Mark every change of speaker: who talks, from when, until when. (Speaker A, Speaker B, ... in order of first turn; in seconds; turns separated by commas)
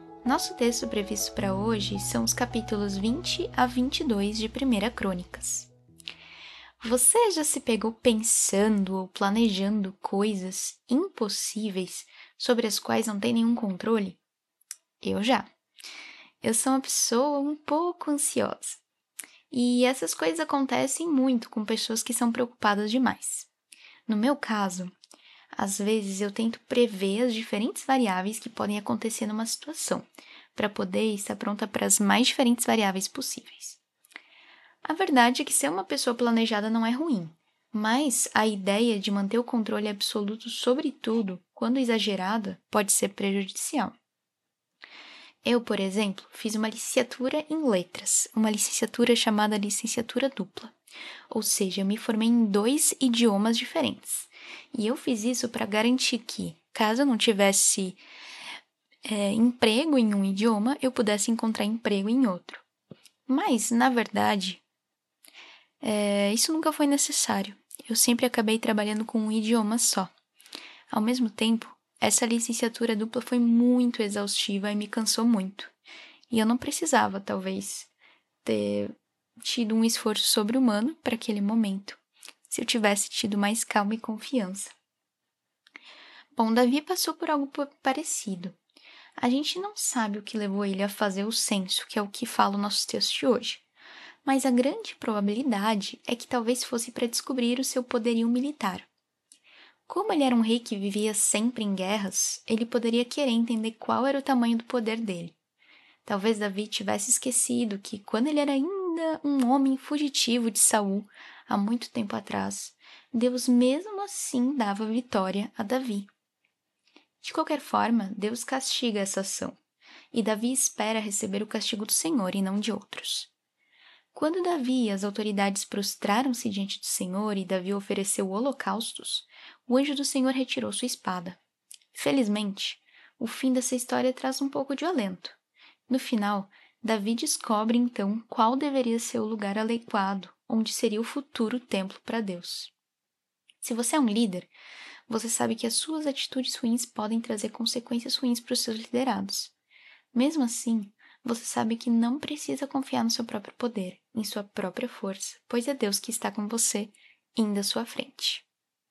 Speaker A: 0.2-5.7, Speaker A: 6.8-14.2, Speaker A: 15.0-15.5, Speaker A: 16.4-18.8, Speaker A: 19.5-23.5, Speaker A: 24.1-24.9, Speaker A: 25.5-33.8, Speaker A: 34.8-44.0, Speaker A: 45.4-50.8, Speaker A: 51.3-58.0, Speaker A: 59.0-62.6, Speaker A: 63.3-64.6, Speaker A: 65.8-70.1, Speaker A: 70.9-75.8, Speaker A: 76.3-77.9, Speaker A: 78.4-84.8, Speaker A: 86.3-88.6, Speaker A: 89.2-93.6, Speaker A: 94.2-98.9, Speaker A: 99.9-105.4, Speaker A: 106.0-116.1, Speaker A: 117.2-119.6, Speaker A: 120.1-123.3, Speaker A: 124.1-131.4, Speaker A: 131.9-142.7, Speaker A: 143.6-144.5, Speaker A: 145.1-149.5, Speaker A: 150.1-158.4